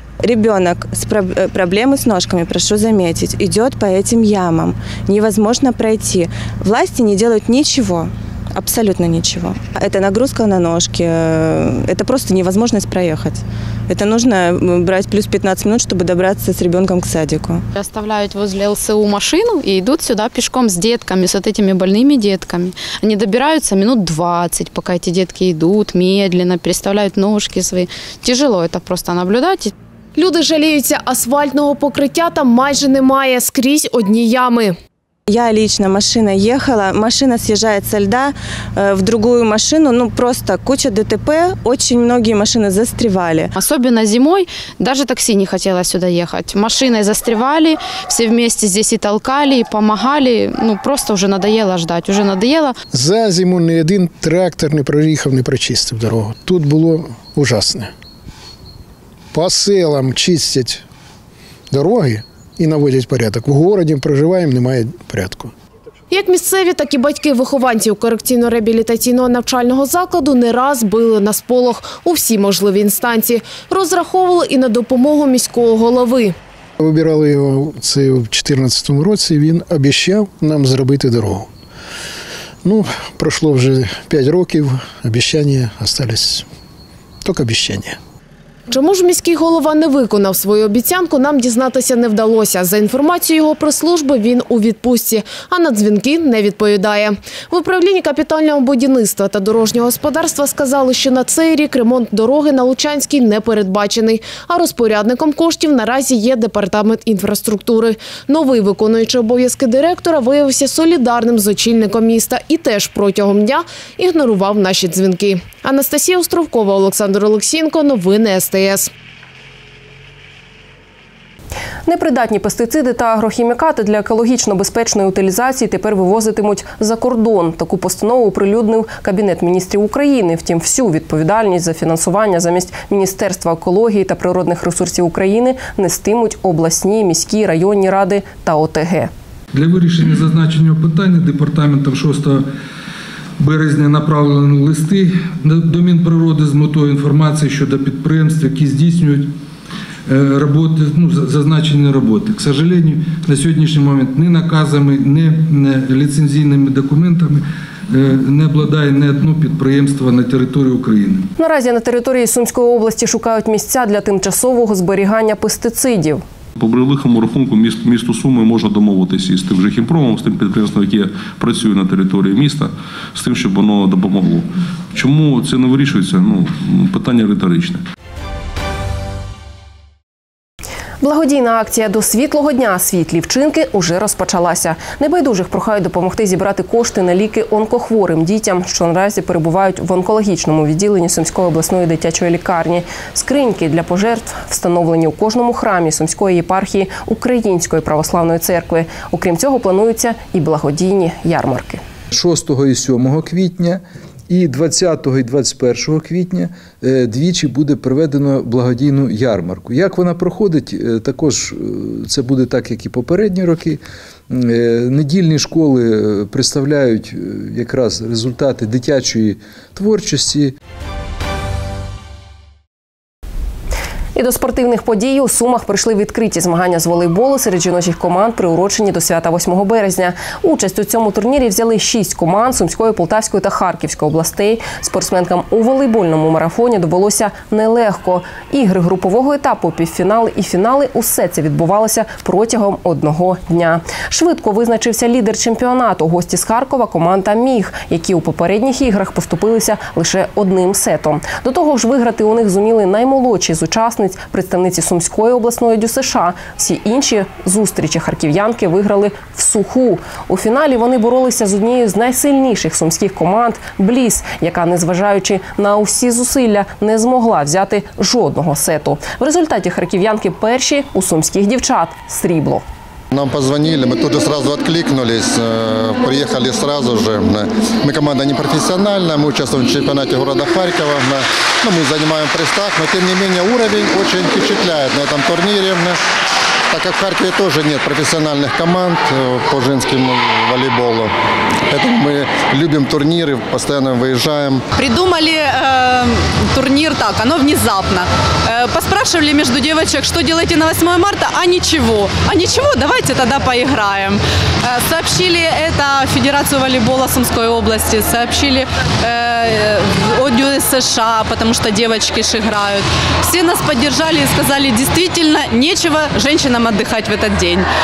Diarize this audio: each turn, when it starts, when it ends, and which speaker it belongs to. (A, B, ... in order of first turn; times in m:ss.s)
0:00.3-0:13.4 A
0:13.9-0:17.5 A
0:17.7-0:29.7 B
0:30.2-0:34.8 C
0:35.3-0:38.3 A
0:38.8-0:43.3 A
0:43.5-0:52.7 B
0:52.9-0:57.9 D
0:59.3-1:00.8 D
1:01.7-1:05.5 D
1:06.1-1:16.3 C
1:16.8-1:21.5 D
1:22.6-1:26.4 D
1:27.2-1:28.0 D
1:28.7-1:58.9 C
2:01.8-2:19.1 E
2:19.8-2:20.3 F
2:23.4-2:25.0 G
2:25.7-2:26.6 G
2:27.1-2:28.2 G
2:30.4-2:31.0 G
2:34.1-2:34.9 G
2:41.4-2:46.2 E
2:46.6-2:57.8 H
3:01.0-3:21.8 E
3:22.1-3:40.5 F
3:44.1-4:32.6 E
4:33.1-4:46.0 I
4:46.7-4:51.1 I
4:51.7-4:54.6 I
4:54.8-5:17.7 J